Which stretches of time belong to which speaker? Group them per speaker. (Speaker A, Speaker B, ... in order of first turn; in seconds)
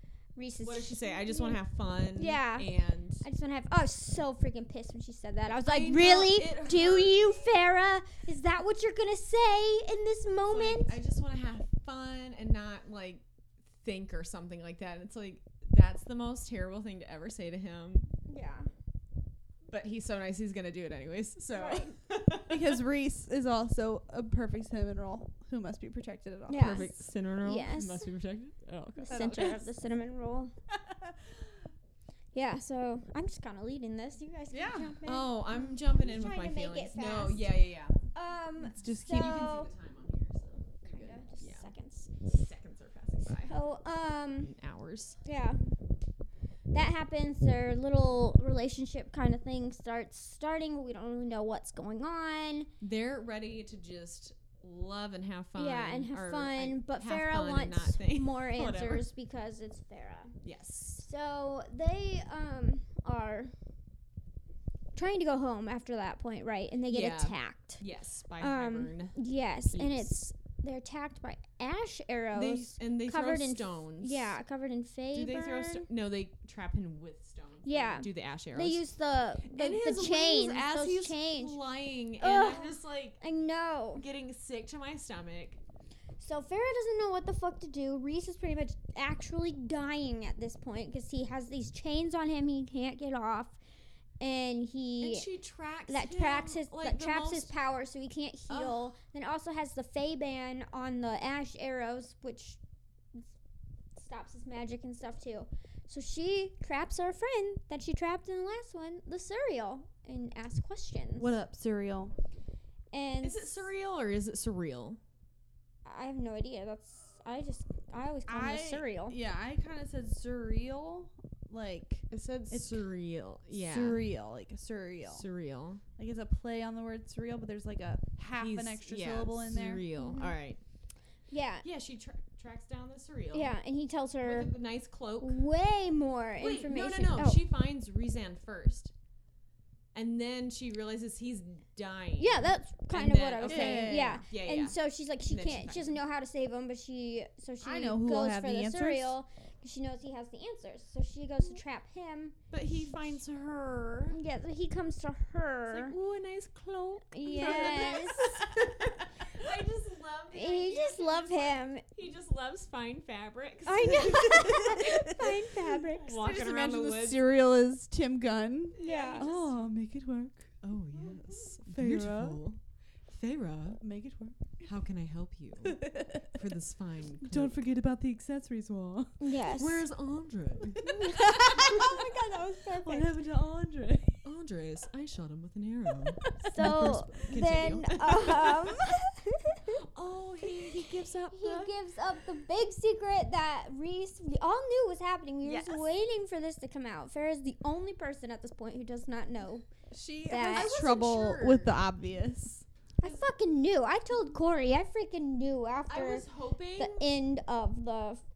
Speaker A: 0.3-1.6, 2.1-2.7, 3.2-10.9, 18.3-18.7, 21.5-21.9, 26.5-28.1, 29.0-30.5, 32.3-37.5, 38.1-39.7, 40.9-42.1, 43.3-44.5, 45.2-45.6, 46.7-52.7, 55.5-60.4, 61.0-63.5, 64.9-67.8, 68.4-75.9, 77.6-81.6, 82.2-84.0, 86.2-93.6, 94.2-95.3, 95.9-102.6, 104.0-111.3, 112.9-113.7, 115.8-119.2, 130.0-130.3, 131.3-131.6, 133.3-134.5, 135.2-137.4, 142.2-152.3, 154.1-155.9, 157.1-158.4, 160.3-161.8, 163.6-166.2, 168.8-169.3, 179.2-179.8, 180.8-183.1, 186.4-189.8, 191.3-199.7, 200.2-200.7, 203.0-206.2, 206.8-208.2
Speaker B: 0.6-3.2, 5.6-7.5, 10.5-18.1, 19.7-22.7, 26.5-29.5, 35.0-38.0, 38.8-41.7, 42.2-43.5, 44.4-45.2, 52.8-59.0, 60.4-61.0, 66.9-69.2, 69.7-70.2, 72.3-74.3, 75.1-78.8, 79.4-83.2, 84.0-85.6, 95.0-97.5, 98.5-98.9, 113.2-115.0, 122.1-124.0, 125.0-125.8, 128.4-130.6, 131.6-133.5, 134.2-135.4, 136.4-138.9, 139.9-146.0, 152.5-154.2, 155.7-165.1, 166.0-167.2, 168.7-169.6, 170.6-173.8, 174.6-177.6, 179.6-181.9, 184.2-188.8, 189.7-191.7, 195.4-195.9, 200.4-201.8, 205.9-207.1
Speaker C: 22.5-26.8, 29.1-29.7, 30.7-31.4, 34.5-35.0, 38.6-39.5, 111.2-112.1, 118.3-122.8, 123.5-125.2, 126.0-129.8, 143.4-144.2, 147.6-149.2, 157.3-158.7, 164.3-170.6, 171.6-172.4, 173.8-174.6, 175.6-176.4, 177.2-179.2, 180.9-184.2, 185.9-186.9, 199.9-202.6